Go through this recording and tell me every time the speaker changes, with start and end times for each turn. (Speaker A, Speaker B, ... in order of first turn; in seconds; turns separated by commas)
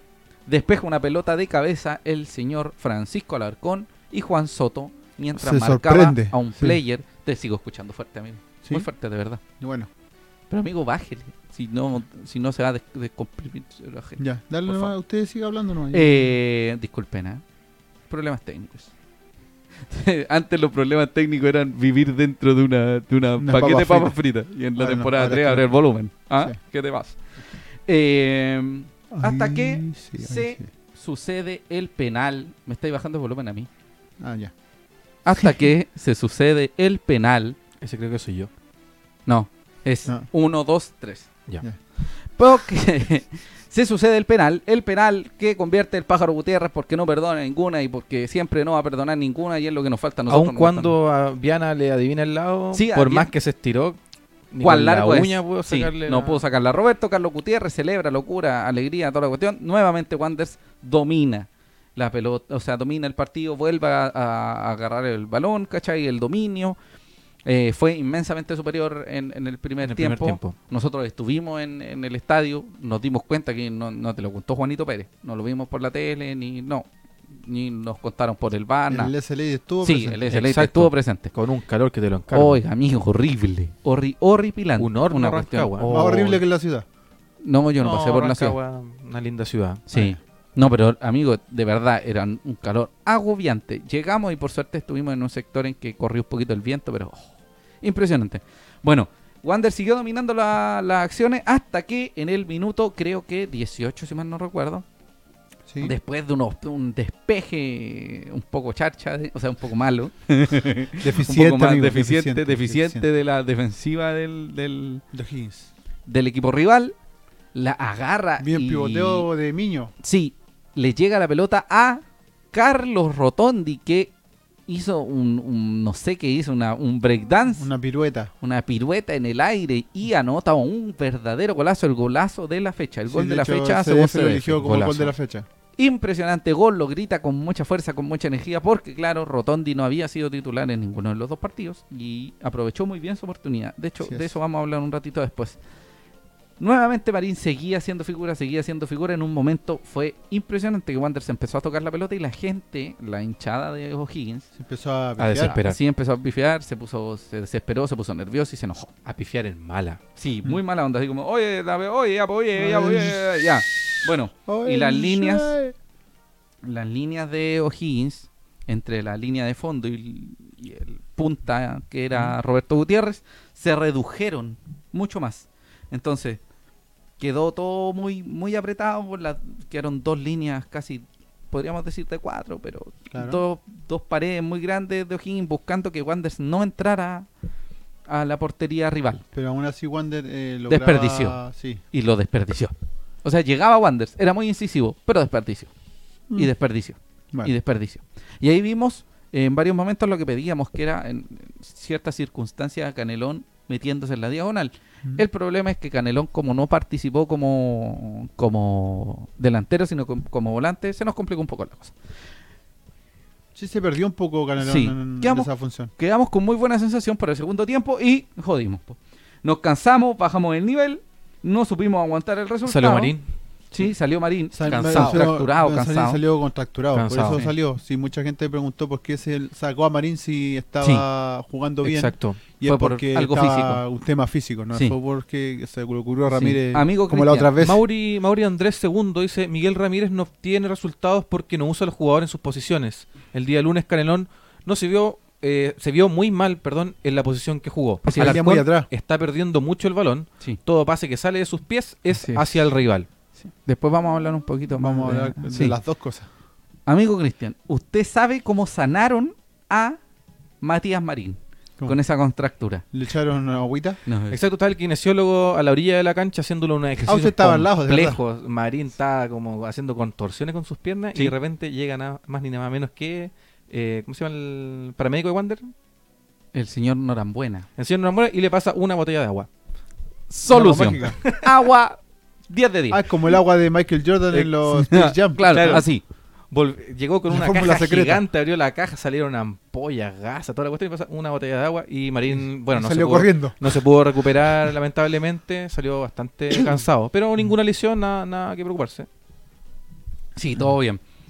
Speaker A: 0.5-9.4, Speaker B: 5.4-6.8, Speaker B: 9.6-9.9, Speaker A: 10.5-14.9, Speaker B: 14.2-16.3, Speaker A: 15.9-17.4, Speaker A: 18.1-18.9, Speaker A: 19.9-27.2, Speaker B: 23.4-24.1, Speaker B: 24.8-25.7, Speaker A: 27.9-33.7, Speaker B: 29.1-30.6, Speaker B: 34.2-34.5, Speaker A: 35.2-37.6, Speaker C: 37.8-38.5, Speaker A: 39.3-41.3, Speaker A: 42.3-50.9, Speaker C: 50.3-54.0, Speaker A: 52.7-53.3, Speaker C: 54.5-56.4, Speaker A: 54.6-66.8, Speaker A: 67.4-76.9, Speaker C: 69.8-70.5, Speaker A: 77.4-79.1, Speaker B: 78.9-80.2, Speaker A: 79.8-81.3, Speaker C: 80.3-82.6, Speaker A: 82.3-86.3, Speaker C: 84.8-86.4, Speaker B: 85.9-86.8, Speaker A: 87.4-88.5, Speaker C: 87.8-89.9, Speaker A: 89.9-104.8, Speaker B: 105.7-106.0, Speaker A: 105.8-115.0, Speaker B: 111.0-113.1, Speaker B: 115.1-115.7, Speaker A: 116.1-116.9, Speaker A: 117.5-119.3, Speaker B: 118.4-119.9, Speaker A: 120.0-122.0, Speaker A: 122.5-124.1, Speaker A: 124.7-127.7, Speaker B: 127.6-128.3, Speaker A: 128.4-134.8, Speaker B: 133.1-135.4, Speaker C: 134.6-135.1, Speaker A: 135.8-145.6, Speaker B: 144.0-144.3, Speaker A: 146.6-154.5, Speaker B: 154.5-155.6, Speaker C: 155.2-155.8, Speaker A: 155.4-158.9, Speaker C: 159.0-160.0, Speaker A: 160.2-165.5, Speaker B: 162.6-163.2, Speaker B: 164.5-165.7, Speaker A: 166.6-176.4, Speaker A: 177.2-187.3, Speaker B: 183.1-183.4, Speaker A: 188.1-189.2, Speaker B: 189.3-191.8, Speaker A: 190.7-191.4, Speaker A: 191.9-192.7, Speaker A: 193.2-195.7, Speaker A: 196.3-211.9, Speaker B: 213.5-215.9, Speaker A: 214.6-223.1, Speaker C: 222.7-223.2, Speaker A: 223.7-226.2, Speaker B: 224.5-237.8, Speaker C: 224.8-225.2, Speaker C: 226.9-227.4, Speaker C: 231.8-232.4, Speaker A: 232.6-233.8, Speaker A: 236.3-237.5, Speaker C: 237.6-253.1, Speaker A: 248.0-248.4, Speaker B: 248.2-248.9, Speaker A: 252.2-252.6, Speaker A: 253.4-255.8, Speaker B: 254.8-256.3, Speaker A: 256.9-260.0, Speaker A: 260.6-262.8, Speaker B: 262.9-264.0, Speaker A: 264.1-264.4, Speaker C: 264.3-275.7, Speaker B: 267.0-268.2, Speaker A: 276.5-277.6, Speaker C: 277.8-279.5, Speaker A: 280.3-282.0, Speaker B: 280.5-281.2, Speaker C: 280.9-281.5, Speaker A: 282.5-283.0, Speaker B: 282.9-285.8, Speaker C: 284.3-285.9, Speaker A: 284.9-286.0, Speaker C: 286.5-299.1, Speaker B: 287.3-288.2, Speaker B: 292.7-293.8, Speaker A: 300.4-301.0